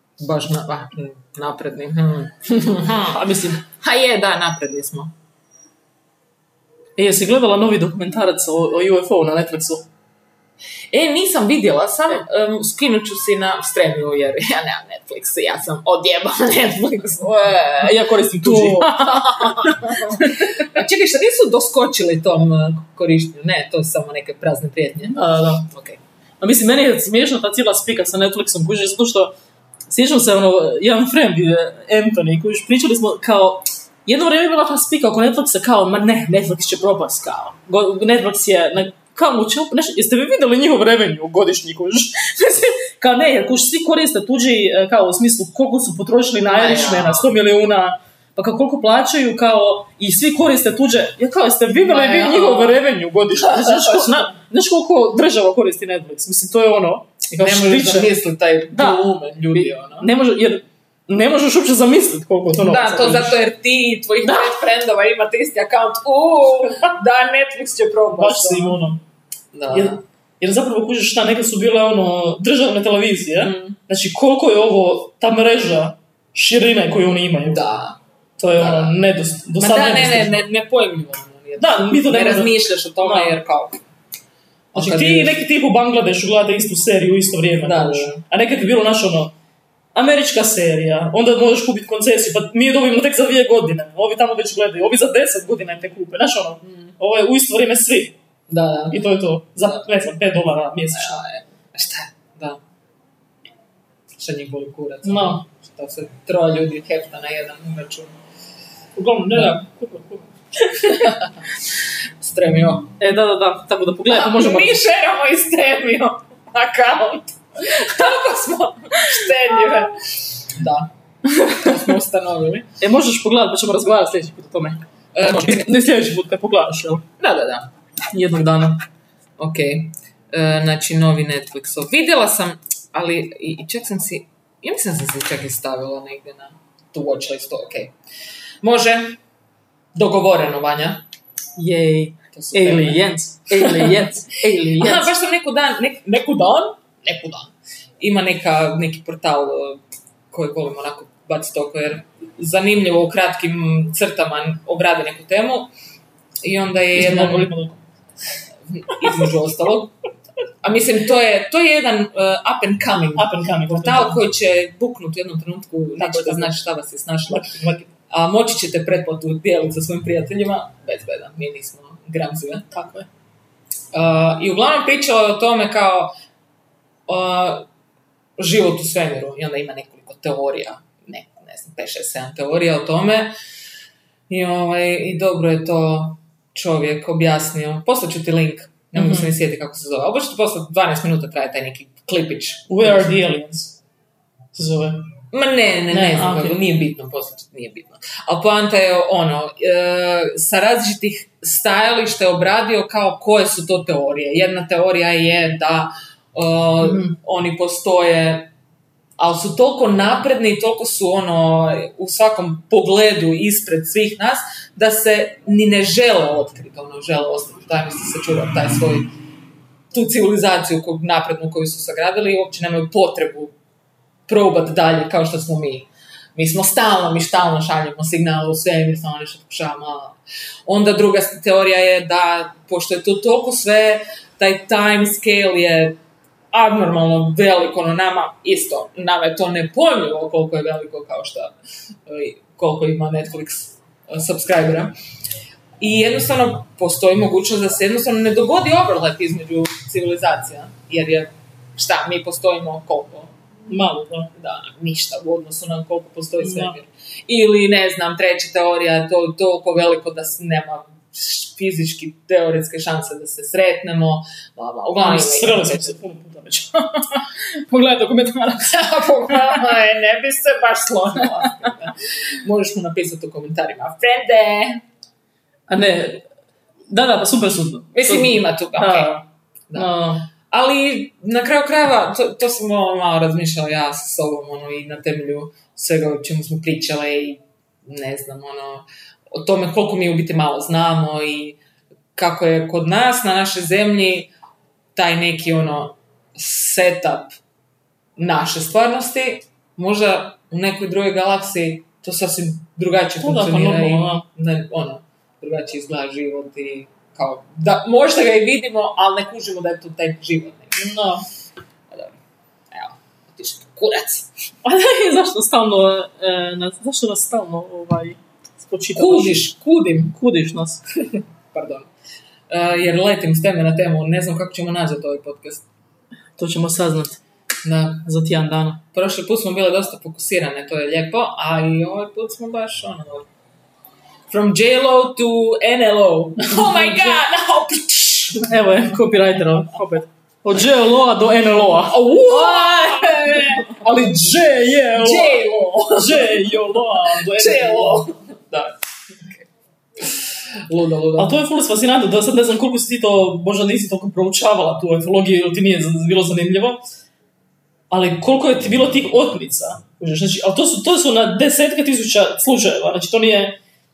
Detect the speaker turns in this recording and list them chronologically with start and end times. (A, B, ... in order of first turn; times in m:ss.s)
0:00.2-0:05.1 A
0:03.0-0:03.6 B
0:07.0-0:09.9 B
0:10.9-0:26.0 A
0:17.8-0:20.6 B
0:25.1-0:25.7 B
0:26.4-0:29.3 B
0:29.9-0:58.2 B
0:46.5-0:47.3 A
0:51.7-0:52.8 A
0:53.4-0:54.3 A
0:57.4-1:00.1 A
0:58.7-1:03.4 B
1:02.6-1:08.8 A
1:04.2-1:04.5 B
1:08.1-1:09.0 B
1:09.5-1:10.0 A
1:09.7-1:17.6 B
1:13.4-1:13.8 A
1:17.4-1:18.0 A
1:18.4-1:20.4 B
1:18.5-1:19.0 A
1:19.6-1:23.8 A
1:21.6-1:23.4 B
1:24.7-1:25.4 A
1:24.7-1:29.3 B
1:27.6-1:28.2 A
1:29.9-1:38.2 B
1:36.6-1:36.9 A
1:38.5-1:39.0 A
1:38.9-1:41.2 B
1:40.9-1:42.6 A
1:44.2-1:48.2 A
1:45.0-1:45.4 B
1:49.0-1:51.2 B
1:49.3-1:49.6 A
1:50.9-1:51.3 A
1:52.2-1:52.9 A
1:53.0-1:54.8 B
1:54.0-2:00.9 A
2:01.2-2:02.0 B
2:01.6-2:02.7 A
2:02.8-2:07.0 B
2:05.1-2:05.7 A
2:07.2-2:07.7 A
2:08.1-2:08.8 B
2:09.4-2:17.9 A
2:18.6-2:19.2 A
2:19.9-2:21.0 A
2:21.6-2:25.1 B
2:22.3-2:24.1 A
2:24.8-2:35.7 A
2:36.4-2:37.5 A
2:36.9-2:37.8 B
2:38.6-2:39.9 A
2:40.6-2:47.5 A
2:43.1-2:44.2 B
2:46.0-2:46.6 B
2:47.3-2:47.9 B
2:48.1-2:52.7 A
2:52.7-2:53.1 B
2:53.9-2:56.1 A
2:57.1-2:57.7 A
2:58.4-3:03.3 A
3:04.3-3:13.1 A
3:08.9-3:09.3 B
3:12.7-3:13.8 B
3:14.5-3:15.0 B
3:15.3-3:28.5 A
3:15.9-3:16.6 B
3:26.8-3:27.1 B
3:29.2-3:39.1 A
3:39.9-3:43.5 A
3:44.3-3:56.0 A
3:56.5-4:01.5 A
4:02.0-4:04.9 A
4:05.8-4:13.3 A
4:13.7-4:14.3 B
4:14.3-4:26.0 A
4:16.4-4:16.7 B
4:25.0-4:28.4 B
4:28.4-4:34.8 A
4:35.7-4:36.2 B
4:36.9-4:40.3 B
4:37.9-4:39.2 A
4:39.7-4:51.6 A
4:52.2-4:54.3 A
4:54.9-4:57.4 A
4:58.2-5:10.7 A
5:03.2-5:04.2 B
5:10.7-5:11.3 B
5:11.9-5:12.2 A
5:12.7-5:14.3 A
5:14.6-5:19.4 B
5:18.9-5:20.1 A
5:20.1-5:20.8 B
5:21.1-5:21.9 A
5:22.5-5:25.6 A
5:26.4-5:27.2 B
5:27.6-5:28.0 A
5:28.0-5:28.8 B
5:28.9-5:33.3 A
5:34.3-5:38.5 A
5:36.4-5:37.2 B
5:38.4-5:48.1 B
5:41.7-5:43.8 A
5:45.0-5:46.5 A
5:47.3-5:48.7 A
5:50.7-5:51.4 A
5:51.2-5:56.8 B
5:57.9-6:03.6 B